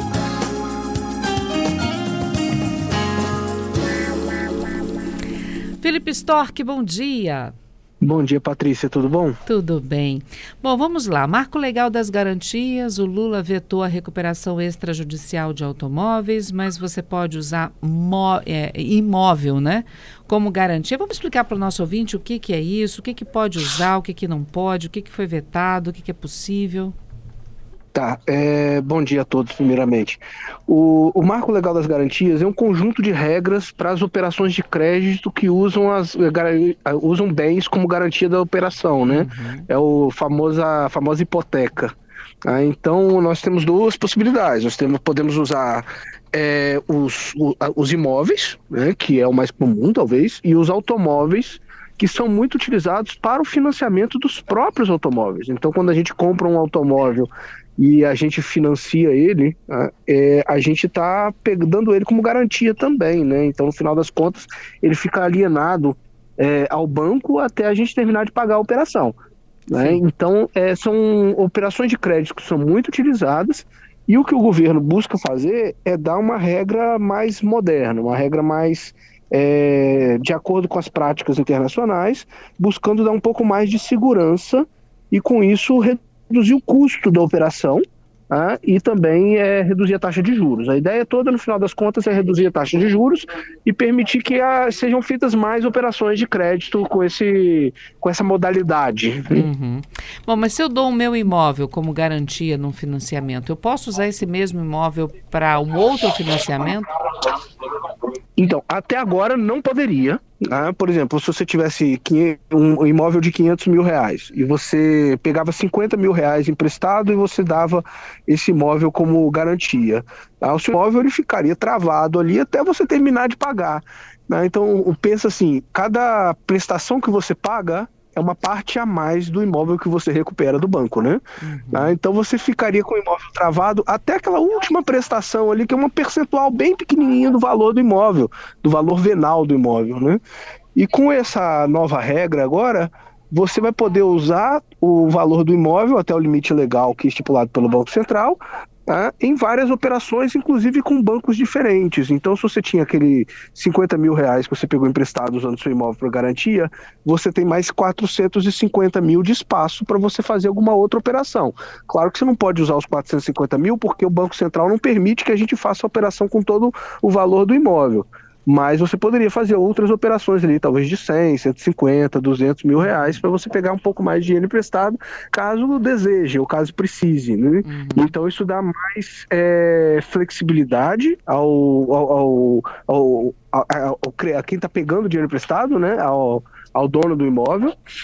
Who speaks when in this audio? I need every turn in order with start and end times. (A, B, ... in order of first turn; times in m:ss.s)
0:05.8-0:07.6 A
0:08.0-0:09.4 B
0:09.4-0:27.0 A
0:27.9-0:41.9 B
0:39.1-0:39.7 A
0:42.4-1:09.2 B
1:09.7-1:39.5 B
1:09.7-1:10.0 A
1:39.3-1:46.9 A
1:48.4-2:20.2 B
2:11.4-2:12.0 A
2:20.8-3:07.7 B
2:52.9-2:53.1 A
2:57.6-2:58.1 A